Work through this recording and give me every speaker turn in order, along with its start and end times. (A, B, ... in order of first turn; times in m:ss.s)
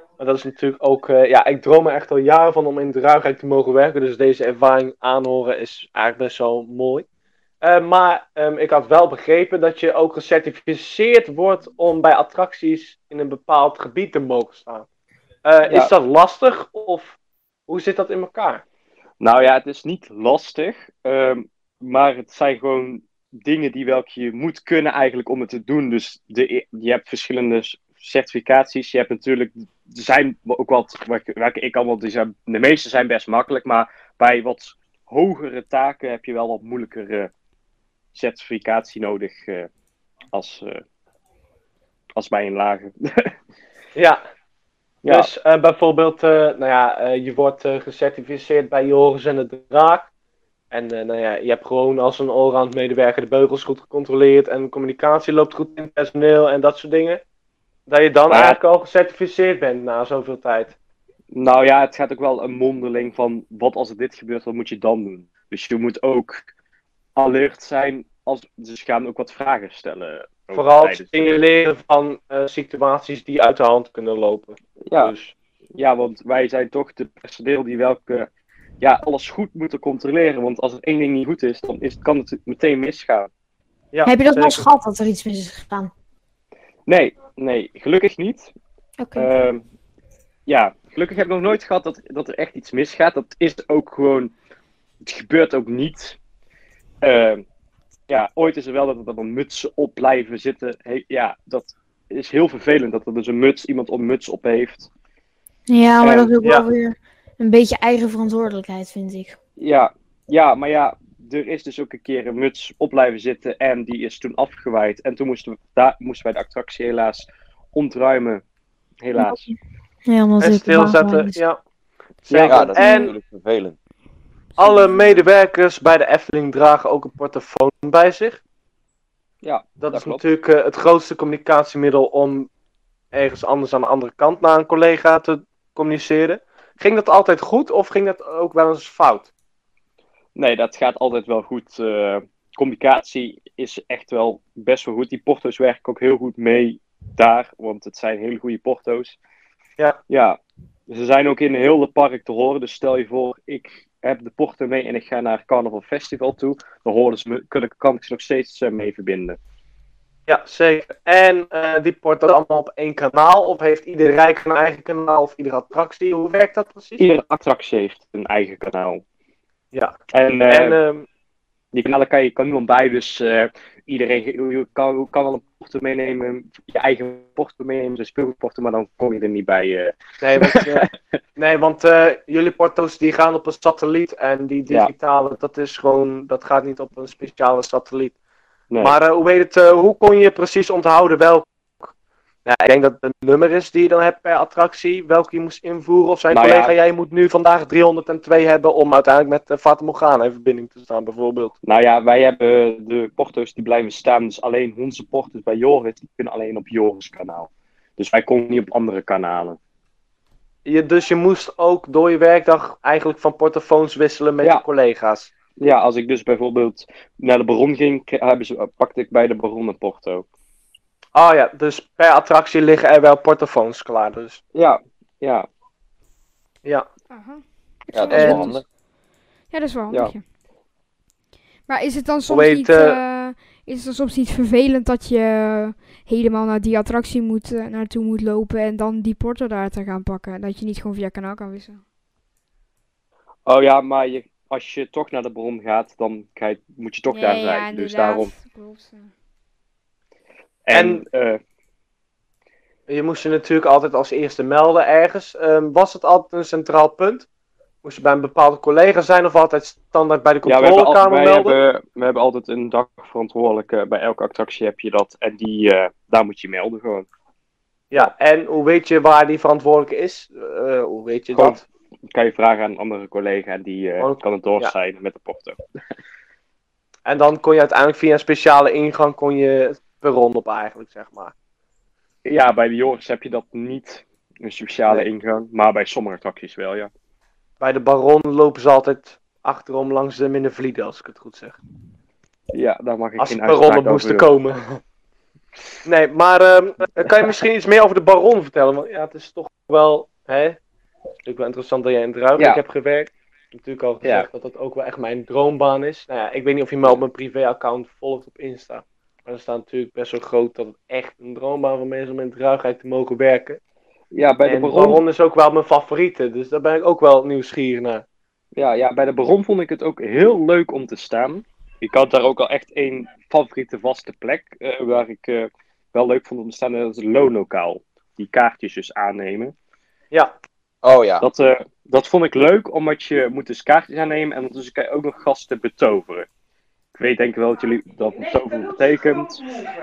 0:00.2-0:07.1 A
0:07.6-0:14.9 A
0:15.4-0:18.6 A
0:19.2-0:37.3 B
0:38.1-0:39.7 B
0:40.3-0:40.8 B
0:42.2-0:43.3 B
0:44.0-0:44.2 A
0:45.0-0:45.3 B
0:45.1-0:50.1 A
0:50.7-0:57.2 A
0:57.9-1:00.8 A
0:58.3-0:58.6 B
1:01.3-1:06.4 B
1:07.2-1:11.1 B
1:10.5-1:15.3 A
1:14.9-1:15.1 B
1:15.8-1:18.3 B
1:18.8-1:23.3 B
1:23.9-1:24.7 A
1:24.1-1:25.9 C
1:26.9-1:28.5 B
1:29.0-1:29.3 C
1:29.2-1:29.6 B
1:30.5-1:34.3 B
1:35.0-1:36.2 B
1:37.0-1:37.4 B
1:38.1-1:44.9 B
1:45.7-1:49.4 C
1:46.0-1:46.3 B
1:49.6-1:58.4 B
1:59.0-1:59.4 B
1:59.2-1:59.6 C
2:00.1-2:01.4 C
2:00.4-2:01.6 A
2:02.2-2:03.1 A
2:02.3-2:02.6 B
2:02.5-2:03.8 D
2:02.8-2:03.1 C
2:04.6-2:08.4 A
2:09.4-2:10.2 B
2:09.8-2:12.5 A
2:13.1-2:19.3 A
2:20.4-2:29.2 B
2:30.1-2:30.4 B
2:30.9-2:39.4 B
2:40.3-2:47.0 A
2:47.0-2:49.0 B
2:50.1-2:50.8 B
2:50.5-2:51.1 A
2:51.7-3:00.9 B
3:00.2-3:08.2 A
3:08.8-3:11.9 A
3:12.5-3:21.5 A
3:16.3-3:16.7 B
3:21.6-3:29.6 B
3:30.7-3:35.3 A
3:35.6-3:40.2 B
3:41.2-3:44.4 A
3:44.5-3:45.5 B
3:47.1-3:48.6 E
3:47.9-3:48.6 D
3:48.1-3:48.5 A
3:49.5-3:50.2 E
3:51.7-4:01.8 E
3:52.3-3:53.0 A
4:03.5-4:08.3 B
4:07.1-4:09.1 E
4:10.7-4:11.4 B
4:10.7-4:11.0 A
4:12.9-4:17.3 A
4:17.8-4:21.6 A
4:20.4-4:27.1 B
4:27.9-4:31.6 A
4:31.4-4:35.6 B
4:34.0-4:34.7 A
4:37.1-4:41.3 A
4:42.2-4:46.9 B
4:47.6-4:51.6 A
4:52.5-4:54.3 B
4:53.2-4:54.8 A
4:55.8-5:00.6 A
5:01.2-5:13.6 A
5:04.0-5:04.3 B
5:14.1-5:15.0 B
5:14.5-5:18.0 A
5:18.6-5:29.5 B
5:30.8-5:31.3 D
5:31.2-5:36.3 B
5:37.0-5:39.6 B